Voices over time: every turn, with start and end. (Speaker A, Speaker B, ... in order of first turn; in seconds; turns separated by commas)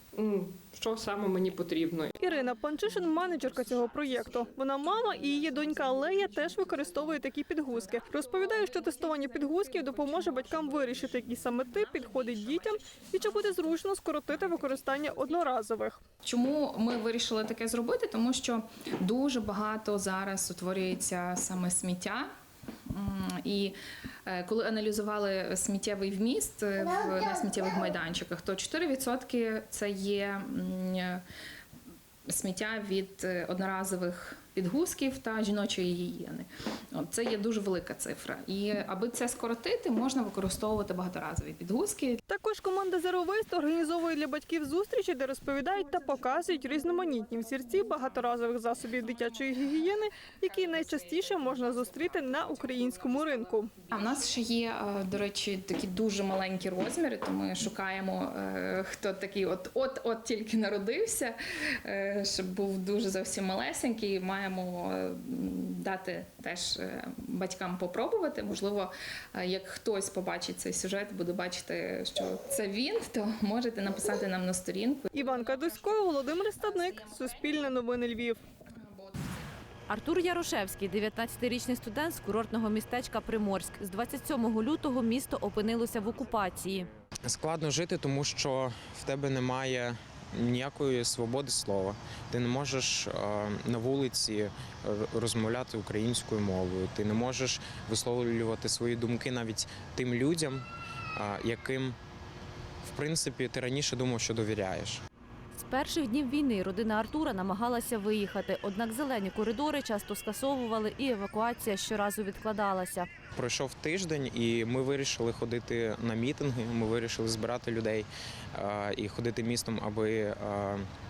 Speaker A: 0.2-2.2, Speaker B: 2.2-16.0, Speaker C: 16.2-22.3, Speaker C: 22.9-31.2, Speaker C: 32.3-42.2, Speaker B: 42.3-53.7, Speaker C: 53.9-75.1, Speaker B: 75.1-78.4, Speaker D: 79.9-86.9, Speaker E: 87.3-100.7, Speaker E: 101.2-102.0, Speaker E: 102.8-105.0, Speaker D: 105.5-113.1, Speaker E: 113.3-120.9